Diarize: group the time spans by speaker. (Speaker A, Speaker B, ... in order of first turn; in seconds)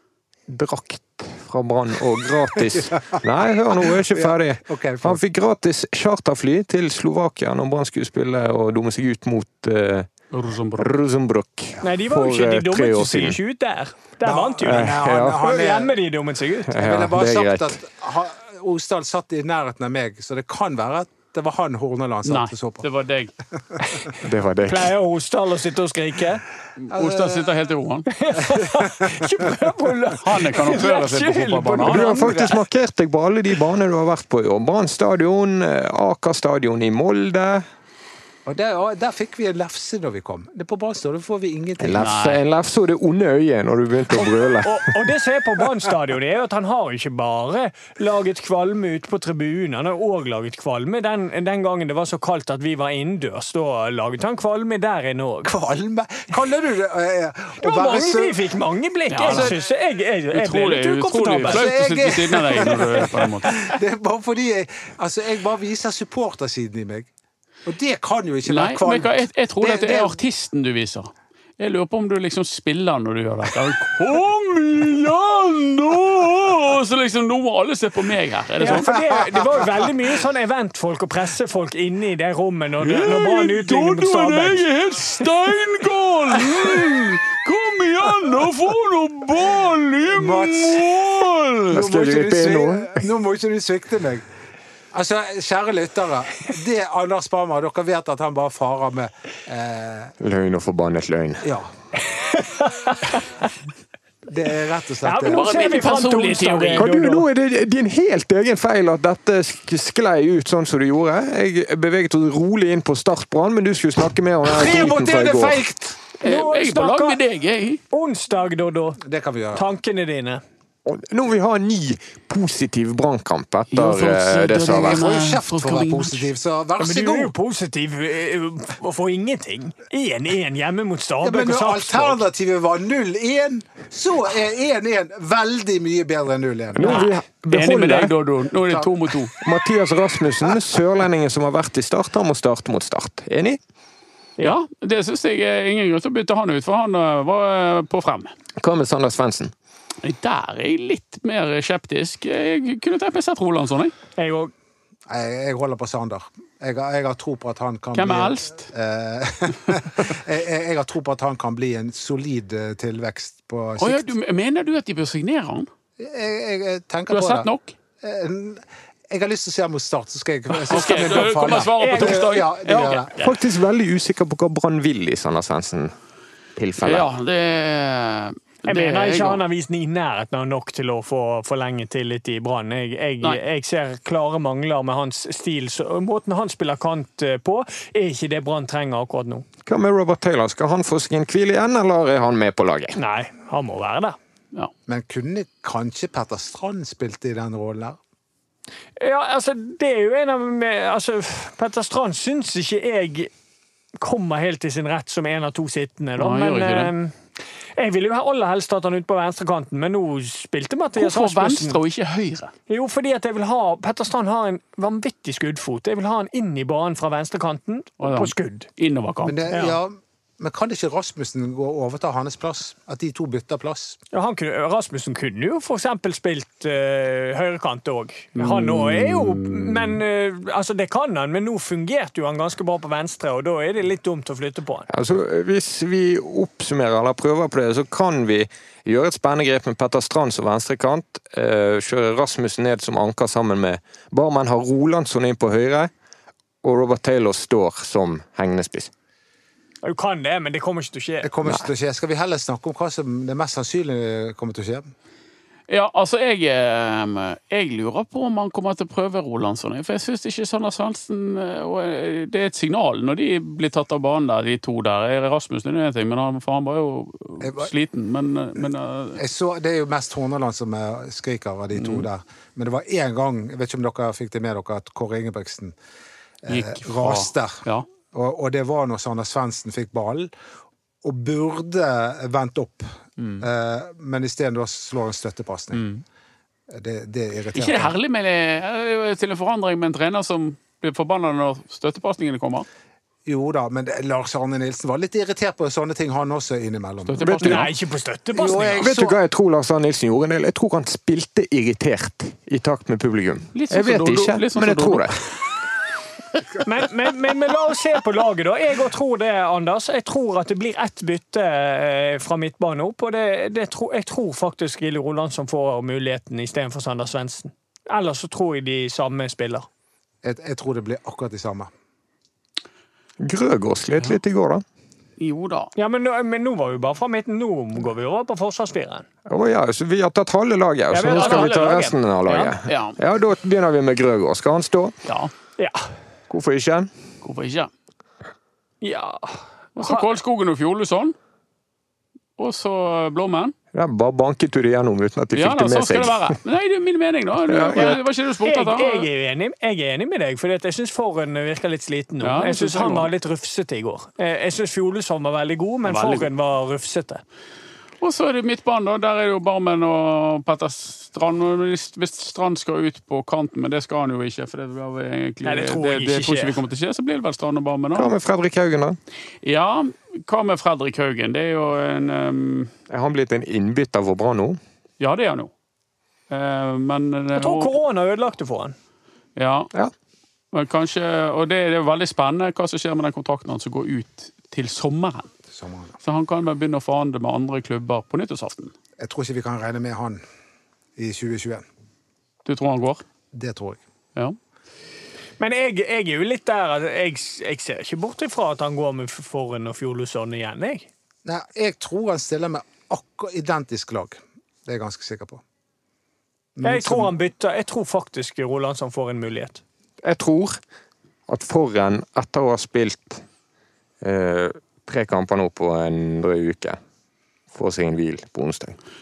Speaker A: 0.5-10.1, 10.8-13.4, 14.6-15.4, 16.7-17.8, 24.2-24.9, 31.8-37.6, 41.8-44.9, 91.7-93.0, 100.2-101.5, 106.8-115.6, 120.8-125.1, 136.7-138.1, 139.4-143.6, 148.6-149.5, 173.2-175.9, 176.6-177.1, 189.7-193.0, 234.9-245.9, 246.6-248.9, 297.2-297.7, 298.7-305.2, 323.2-324.6, 329.3-334.9, 336.3-336.9, 343.7-346.4, 347.5-348.0, 367.9-369.0, 372.9-374.6, 410.0-410.6, 411.3-413.2, 414.0-416.8, 417.5-418.8
Speaker B: 2.8-3.1, 4.1-5.2, 14.2-15.9, 16.8-22.9, 23.7-24.2, 26.9-27.5, 28.3-29.5, 38.5-42.1, 55.4-58.4, 59.2-59.6, 61.4-67.1, 67.6-70.2, 78.7-79.2, 90.1-91.0, 91.7-94.2, 94.9-100.1, 101.4-101.7, 104.3-105.5, 114.4-116.0, 119.0-119.7, 124.8-127.3, 131.2-137.0, 155.1-164.1, 166.0-167.5, 168.0-173.1, 194.9-198.0, 219.2-224.0, 251.2-254.9, 267.4-267.7, 269.2-275.7, 276.4-280.3, 281.0-285.9, 286.7-287.9, 293.2-297.5, 298.4-299.2, 320.2-321.7, 385.5-385.9, 389.0-390.2, 391.0-391.6, 393.3-393.8, 401.2-405.4, 406.6-407.1
Speaker C: 10.3-10.9, 22.2-23.3, 26.8-28.1, 30.2-32.0, 42.0-42.4, 59.1-59.6, 60.3-63.5, 68.4-78.9, 82.8-91.8, 105.3-106.8, 116.2-117.8, 123.7-126.3, 137.5-139.3, 144.4-148.3, 150.0-153.9, 157.9-158.7, 163.8-165.7, 167.1-167.8, 170.6-173.3, 176.8-179.4, 206.2-206.9, 210.9-212.5, 218.0-219.5, 228.3-230.0, 255.7-269.2, 271.7-272.1, 276.5-277.9, 283.2-283.4, 285.7-286.0, 287.5-292.6, 297.0-297.7, 303.5-305.2, 325.2-325.7, 331.1-331.8, 332.7-333.0, 335.0-335.3, 337.2-337.7, 339.8-341.1, 342.4-343.5, 345.3-349.1, 352.2-353.1, 355.8-356.3, 358.0-368.1, 369.4-372.7, 375.0-375.5, 376.3-377.7, 379.4-379.7, 380.5-385.3, 386.0-388.7, 392.4-393.0
Speaker D: 11.8-16.7, 24.6-26.4, 28.1-32.6, 44.2-55.5, 57.6-61.7, 62.5-63.6, 78.6-84.7, 102.1-103.2, 105.0-107.2, 116.2-117.2, 117.9-119.0, 119.5-120.4, 126.8-132.2, 136.8-137.1, 154.2-154.5, 170.8-172.2, 178.7-189.4, 192.9-194.2, 199.0-203.3, 204.0-207.1, 207.8-211.8, 212.7-218.7, 219.5-219.8, 224.1-234.9, 249.8-251.3, 297.4-298.9, 306.6-319.7, 325.8-329.1, 330.9-332.6, 335.6-335.8, 338.8-340.1, 347.8-357.2, 365.4-366.6, 377.3-378.7, 395.4-400.9, 406.6-409.6